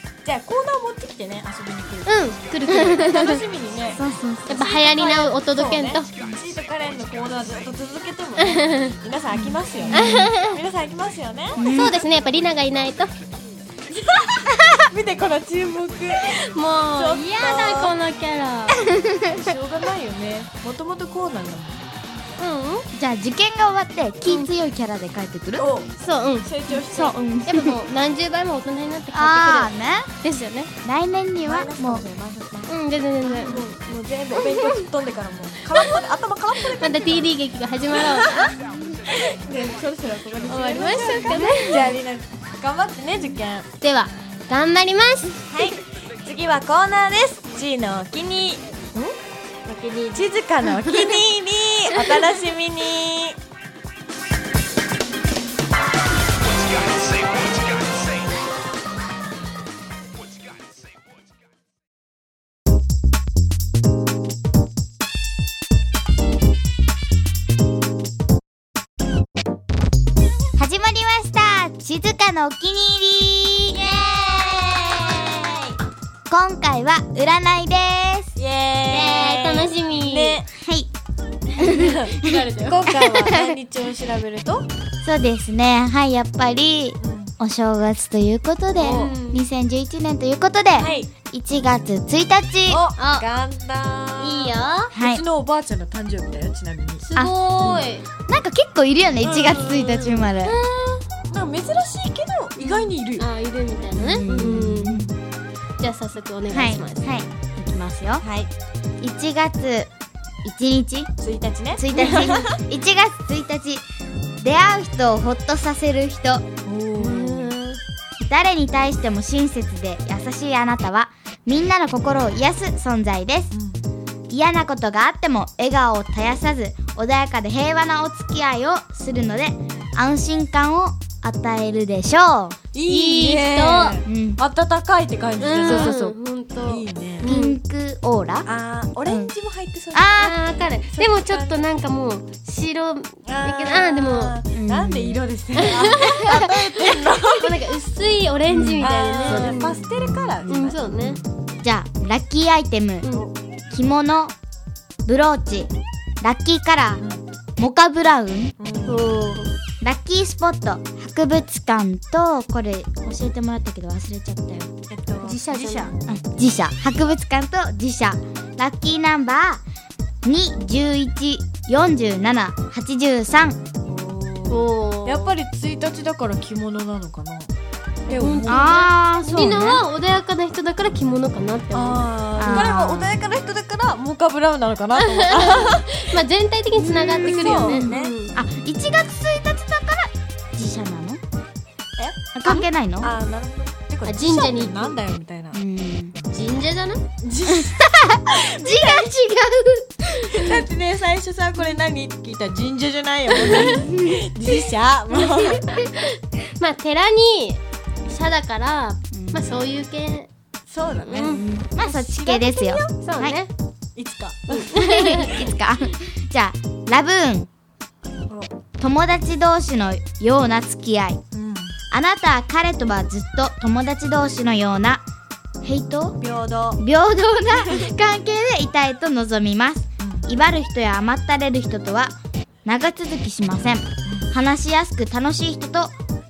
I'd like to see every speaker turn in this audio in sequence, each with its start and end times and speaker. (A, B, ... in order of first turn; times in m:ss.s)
0:00.2-0:12.0 A
0:02.0-0:03.4 B
0:03.9-0:04.6 C
0:04.5-0:06.1 B
0:08.4-0:08.9 B
0:09.3-0:10.3 C
0:09.9-0:10.6 B
0:11.6-0:12.0 C
0:11.7-0:13.1 B
0:13.9-0:16.4 A
0:16.2-0:18.9 B
0:16.9-0:17.9 A
0:18.8-0:19.3 C
0:19.3-0:21.9 A
0:22.4-0:22.9 B
0:22.9-0:25.6 C
0:24.3-0:24.5 B
0:25.6-0:27.2 A
0:26.0-0:26.5 B
0:26.7-0:27.8 C
0:27.4-0:30.7 B
0:29.1-0:30.1 C
0:30.8-0:32.0 C
0:31.4-0:32.7 A
0:32.7-0:33.7 B
0:33.2-0:37.3 A
0:34.4-0:34.8 B
0:36.7-0:38.5 B
0:37.9-0:38.5 A
0:39.1-0:43.7 A
0:40.5-0:41.9 B
0:41.3-0:41.8 C
0:43.8-0:45.5 B
0:45.5-0:49.2 A
0:49.7-0:50.2 B
0:50.1-0:53.4 A
1:10.6-1:13.8 C
1:13.7-1:15.8 A
1:16.3-1:18.3 C
1:18.4-1:20.5 A
1:18.9-1:20.4 B
1:20.5-1:20.9 C
1:21.6-1:22.4 C
1:21.6-1:22.8 B
1:21.6-1:24.7 A
1:23.0-1:23.4 C
1:25.0-1:32.8 C
1:27.0-1:27.3 A
1:28.8-1:29.1 A
1:28.8-1:29.4 B
1:30.8-1:31.1 A
1:32.7-1:37.0 A
1:33.0-1:33.3 B
1:34.2-1:34.9 B
1:34.9-1:35.2 C
1:37.0-1:38.0 B
1:37.1-1:40.6 C
1:39.2-1:40.3 A
1:40.4-1:41.0 B
1:41.3-1:43.2 A
1:42.6-1:45.1 B
1:43.9-1:45.2 C
1:45.8-1:47.2 B
1:46.5-1:48.2 C
1:48.2-1:48.5 A
1:49.0-1:49.9 C
1:50.4-1:51.1 C
1:51.2-1:52.6 A
1:51.8-1:53.8 C
1:51.9-1:52.4 B
1:54.4-1:56.4 C
1:56.6-1:57.5 A
1:57.0-1:57.8 B
1:58.2-2:03.5 C
2:03.5-2:03.8 A
2:04.3-2:12.6 C
2:12.7-2:16.0 A
2:12.9-2:14.0 B
2:14.0-2:14.4 C
2:15.4-2:17.6 B
2:15.6-2:16.2 C
2:16.7-2:17.3 A
2:17.2-2:18.5 C
2:18.4-2:21.7 A
2:19.0-2:19.3 C
2:19.9-2:20.4 C
2:20.2-2:24.4 B
2:23.2-2:27.8 A
2:24.5-2:25.2 C
2:25.6-2:26.4 B
2:27.4-2:29.8 B
2:28.5-2:30.6 C
2:28.8-2:31.2 A
2:30.5-2:31.2 B
2:31.6-2:33.1 C
2:33.0-2:33.3 B
2:33.7-2:34.3 C
2:35.0-2:37.0 C
2:37.6-2:38.5 C
2:38.6-2:39.4 A
2:38.8-2:39.5 B
2:39.8-2:44.7 C
2:44.9-2:46.0 A
2:45.2-2:45.9 B
2:46.1-2:49.6 C
2:50.2-2:53.6 C
2:53.8-2:57.5 A
2:54.5-2:55.3 B
2:58.1-2:58.8 A
2:58.1-3:02.7 B
2:58.5-2:59.8 C
3:01.7-3:06.2 A
3:02.4-3:03.2 C
3:05.0-3:08.4 B
3:06.8-3:11.2 C
3:06.8-3:08.1 A
3:12.0-3:15.6 A
3:12.3-3:13.1 C
3:14.0-3:15.0 B
3:15.5-3:16.1 C
3:16.3-3:17.0 B
3:17.2-3:19.1 A
3:17.6-3:20.6 C
3:20.2-3:25.6 A
3:23.3-3:23.8 B
3:23.5-3:24.2 C
3:25.1-3:30.3 B
3:29.1-3:29.6 C
3:30.7-3:33.0 A
3:31.0-3:31.4 B
3:31.3-3:33.4 C
3:33.0-3:33.5 B
3:34.0-3:35.5 A
3:34.5-3:35.3 B
3:34.7-3:37.5 C
3:38.3-3:38.5 A
3:38.8-3:41.2 C
3:41.3-3:41.8 A
3:41.9-3:45.0 C
3:45.6-3:46.2 C
3:46.2-3:46.8 A
3:46.8-3:55.9 C
3:47.5-3:47.9 A
3:50.0-3:50.3 A
3:54.0-3:54.3 A